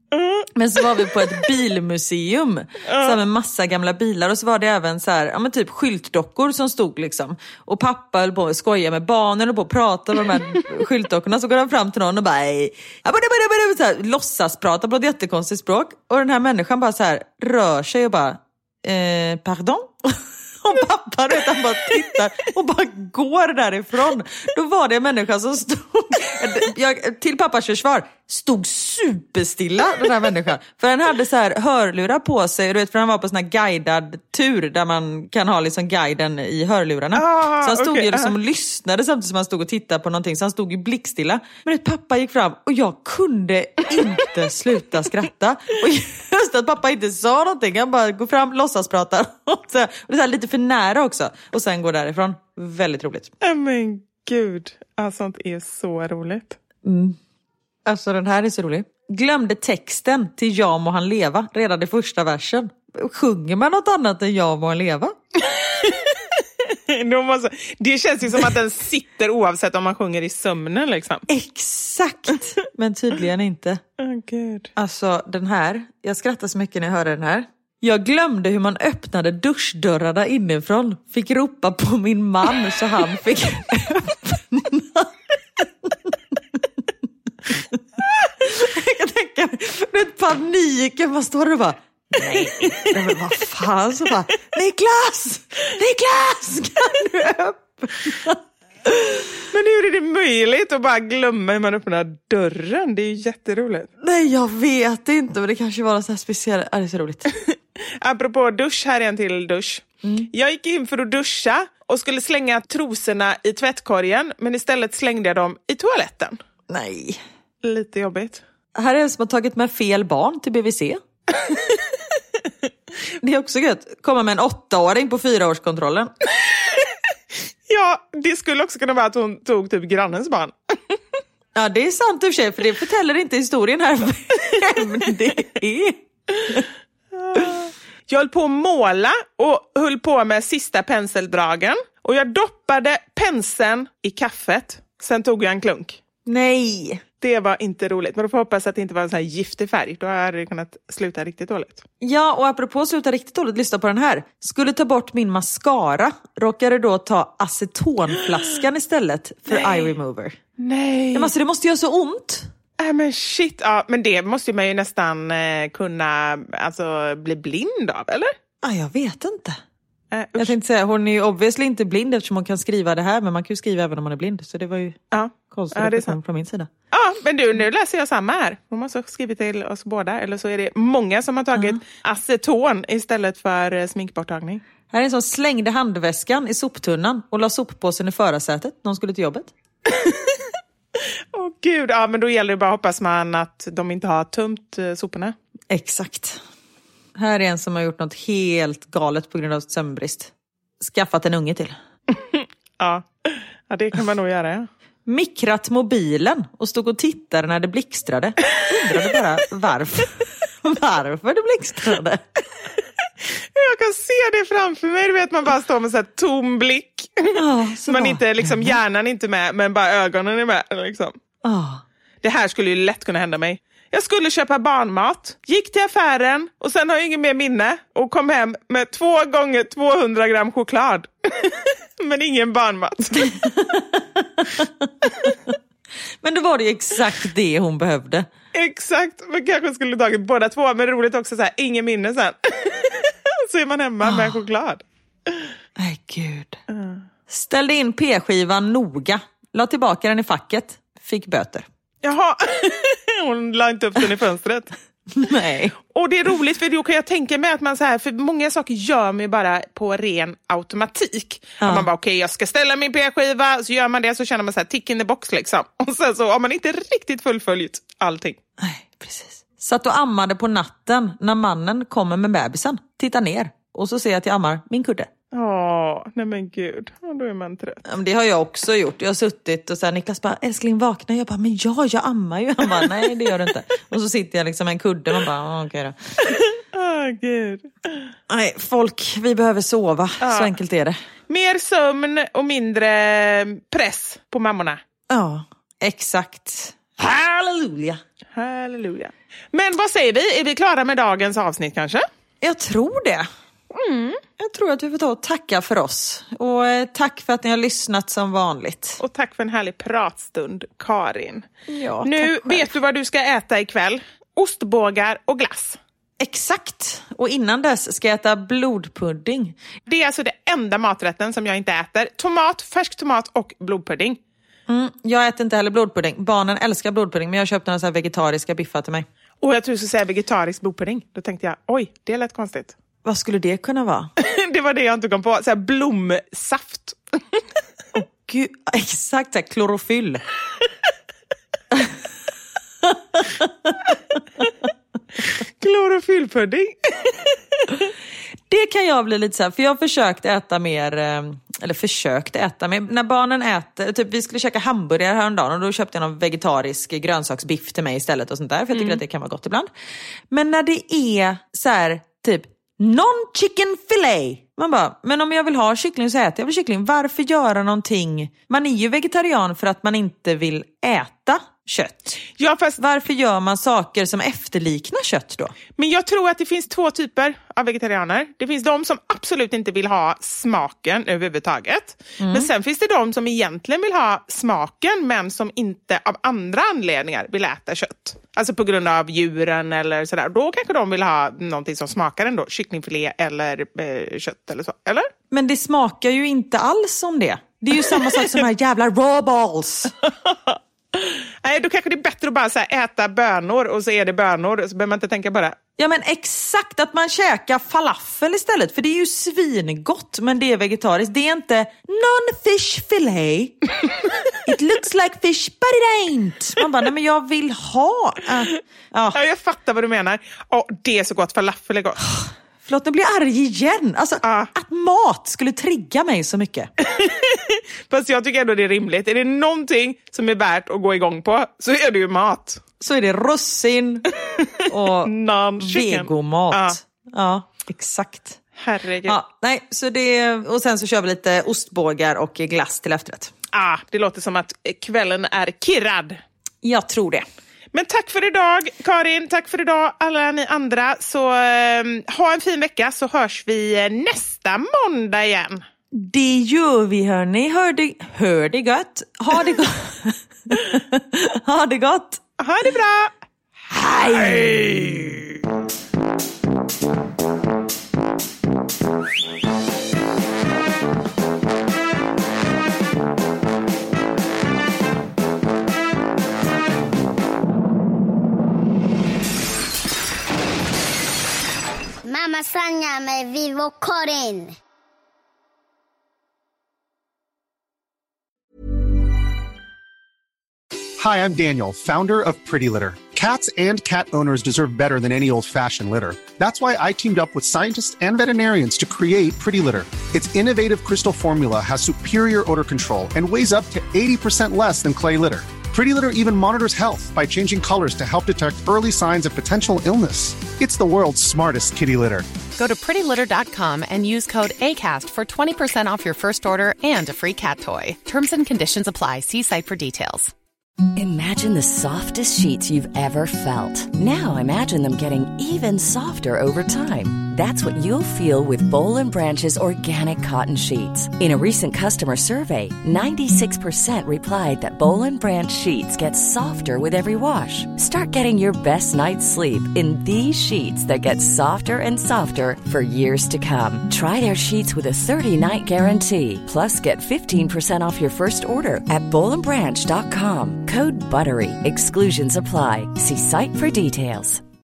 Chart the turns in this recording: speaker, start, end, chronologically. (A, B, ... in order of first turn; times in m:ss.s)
0:00.1-0:01.3 A
0:00.5-0:53.3 B
0:02.9-0:03.2 A
0:37.1-0:38.3 A
0:53.4-0:56.6 A
0:56.8-0:57.2 B
0:57.8-1:05.2 B
1:05.4-1:06.3 A
1:06.9-1:11.2 A
1:11.3-1:13.8 B
1:14.0-1:14.7 A
1:14.8-1:26.6 B
1:27.4-1:27.8 B
1:28.4-1:38.4 B
1:32.2-1:32.9 A
1:39.5-1:43.9 A
1:44.0-1:47.3 B
1:48.0-1:56.4 A
1:50.0-1:50.3 B
1:56.7-1:57.2 B
1:57.6-1:58.4 A
1:58.8-2:01.0 B
2:03.2-2:06.1 B
2:07.7-2:11.0 A
2:11.6-2:16.7 B
2:17.2-2:26.0 A
2:26.2-2:27.0 B
2:27.2-2:31.8 A
2:32.0-2:40.4 B
2:39.5-2:39.9 A
2:40.6-2:41.3 A
2:41.1-2:42.5 B
2:42.8-2:48.3 A
2:48.6-2:49.6 B
2:50.1-2:50.5 A
2:50.4-2:55.0 B
2:55.1-2:56.2 A
2:55.5-2:56.7 B
2:56.9-3:04.6 A
3:04.9-3:09.5 B
3:09.9-3:10.4 A
3:11.3-3:15.3 A
3:15.7-3:16.4 B
3:17.2-3:21.8 B
3:22.1-3:24.7 A
3:25.0-3:32.2 B
3:33.5-3:37.4 A
3:37.4-3:38.8 B
3:37.9-3:41.2 A
3:41.4-3:41.8 B
3:42.2-3:53.3 A
3:53.2-3:55.5 B
3:56.2-3:58.2 B
3:58.5-4:05.4 A
4:04.0-4:04.4 B
4:05.8-4:06.6 B
4:06.7-4:07.0 A
4:07.3-4:11.6 B
4:12.0-4:14.7 A
4:15.1-4:15.7 B
4:15.9-4:28.4 A
4:21.6-4:21.9 B
4:28.6-4:35.1 B
4:35.3-4:37.8 A
4:37.8-4:46.0 B
4:46.3-4:48.1 A
4:48.3-4:51.0 B
4:50.2-4:50.5 A
4:51.3-4:54.8 A
4:55.1-4:58.0 B
4:58.3-5:02.0 A
5:02.4-5:03.3 B
5:03.7-5:04.2 A
5:04.4-5:09.0 B
5:09.0-5:11.5 A
5:11.7-5:12.7 B
5:12.0-5:15.8 A
5:16.2-5:19.6 B
5:19.9-5:24.2 A
5:24.7-5:29.0 B
5:29.4-5:32.8 A
5:33.0-5:34.1 B
5:34.2-5:37.4 A
5:37.9-5:40.2 B
5:42.9-5:43.8 B
5:45.6-5:47.4 A
5:48.5-5:59.7 B
5:58.7-5:59.0 A
6:00.3-6:12.2 B
6:12.4-6:12.8 A
6:12.8-6:15.5 B
6:15.8-6:35.1 A
6:22.2-6:22.5 B
6:35.3-6:39.9 B
6:37.8-6:38.4 A
6:40.0-6:45.6 A
6:45.8-6:53.6 B
6:54.4-6:59.2 B
6:59.1-7:02.0 A
7:02.1-7:06.7 B
7:04.2-7:04.5 A
7:06.8-7:12.6 A
7:12.8-7:14.1 B
7:14.4-7:16.8 A
7:14.7-7:18.4 B
7:18.6-7:19.2 A
7:19.1-7:23.3 B
7:23.5-7:26.2 A
7:26.6-7:27.2 B
7:27.7-7:35.6 A
7:35.9-7:42.2 B
7:42.4-7:43.1 A
7:43.7-7:45.2 B
7:44.1-7:44.7 A
8:02.0-8:04.6 C
8:11.0-8:32.3 D
8:32.5-8:40.3 E
8:41.0-9:14.4 F